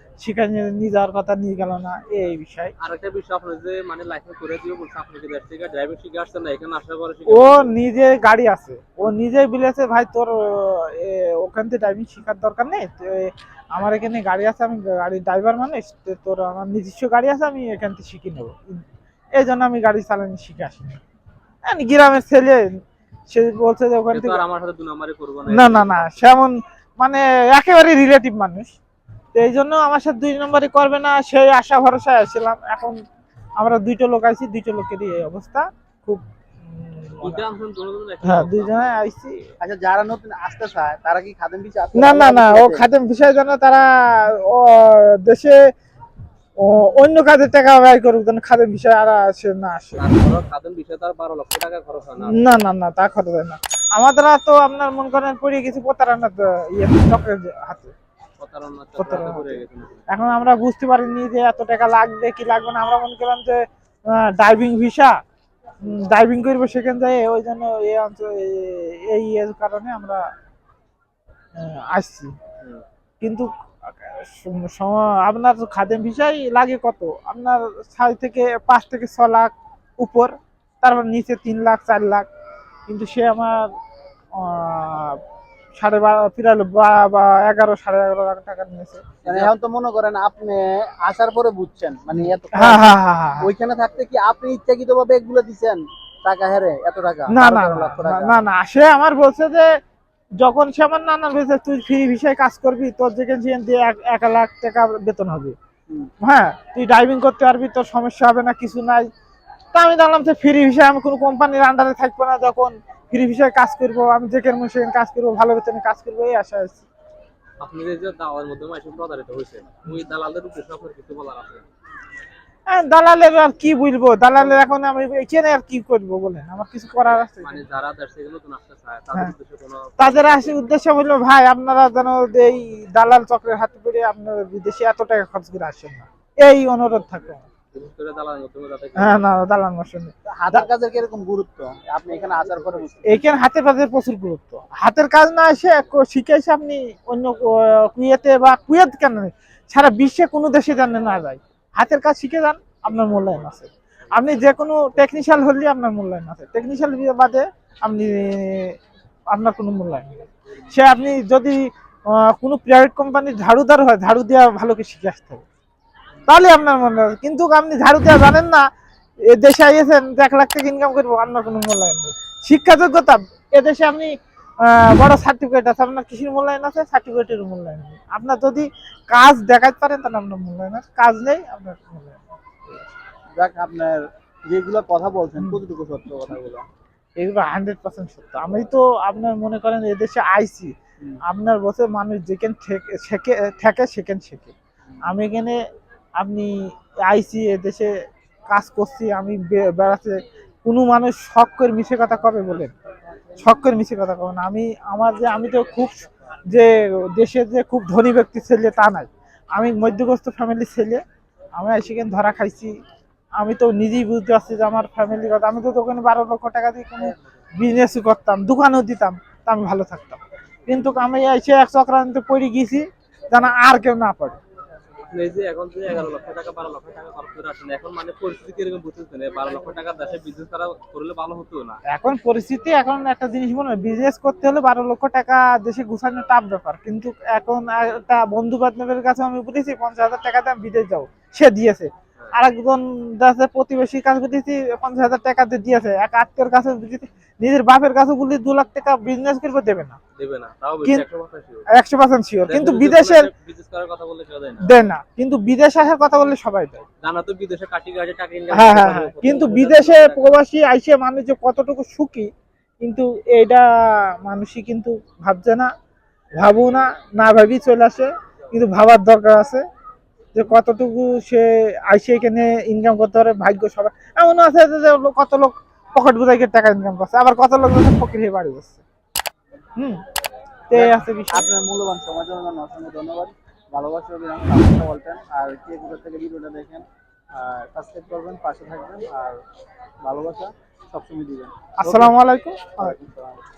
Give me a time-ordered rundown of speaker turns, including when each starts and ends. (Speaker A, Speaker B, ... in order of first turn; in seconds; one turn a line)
Speaker A: 0.2-2.7
Speaker B: 2.8-7.8
Speaker A: 7.3-18.8
Speaker A: 19.4-21.0
Speaker A: 21.7-22.7
Speaker A: 23.3-24.4
Speaker B: 24.1-26.3
Speaker A: 25.5-28.7
Speaker A: 29.4-33.0
Speaker A: 33.6-37.4
Speaker B: 37.2-38.7
Speaker A: 38.2-39.4
Speaker C: 39.6-42.9
Speaker A: 42.0-45.6
Speaker A: 46.6-50.1
Speaker B: 50.0-52.6
Speaker A: 52.2-57.9
Speaker B: 58.4-60.1
Speaker A: 59.0-65.2
Speaker A: 65.8-70.2
Speaker A: 71.6-72.3
Speaker A: 73.2-73.5
Speaker A: 74.1-82.3
Speaker A: 82.9-83.7
Speaker A: 84.4-85.2
Speaker A: 85.8-89.0
Speaker B: 89.2-89.5
Speaker C: 89.2-98.4
Speaker A: 92.2-93.5
Speaker A: 97.3-99.7
Speaker A: 100.4-105.6
Speaker A: 106.2-109.1
Speaker A: 109.7-116.9
Speaker B: 117.6-121.6
Speaker A: 122.7-127.6
Speaker B: 127.4-130.6
Speaker A: 130.0-137.5
Speaker B: 137.7-139.3
Speaker A: 139.0-140.7
Speaker C: 140.3-143.4
Speaker A: 143.1-158.8
Speaker A: 159.3-165.4
Speaker A: 166.3-168.7
Speaker A: 169.3-182.8
Speaker C: 183.4-186.6
Speaker A: 187.2-190.7
Speaker A: 191.3-194.5
Speaker A: 195.1-195.6
Speaker A: 196.2-196.6
Speaker A: 197.1-197.9
Speaker A: 198.5-202.7
Speaker A: 203.4-211.0
Speaker A: 211.6-212.7
Speaker A: 213.4-224.4
Speaker B: 225.1-231.8
Speaker A: 231.9-250.0
Speaker B: 250.2-251.7
Speaker A: 251.7-253.3
Speaker B: 252.5-254.8
Speaker A: 254.6-256.8
Speaker B: 257.0-260.3
Speaker A: 258.5-262.3
Speaker A: 262.8-263.6
Speaker A: 264.2-265.7
Speaker A: 266.4-269.6
Speaker A: 270.4-278.8
Speaker A: 280.7-281.5
Speaker C: 280.7-289.4
Speaker C: 290.0-292.2
Speaker A: 291.8-293.0
Speaker C: 292.8-293.4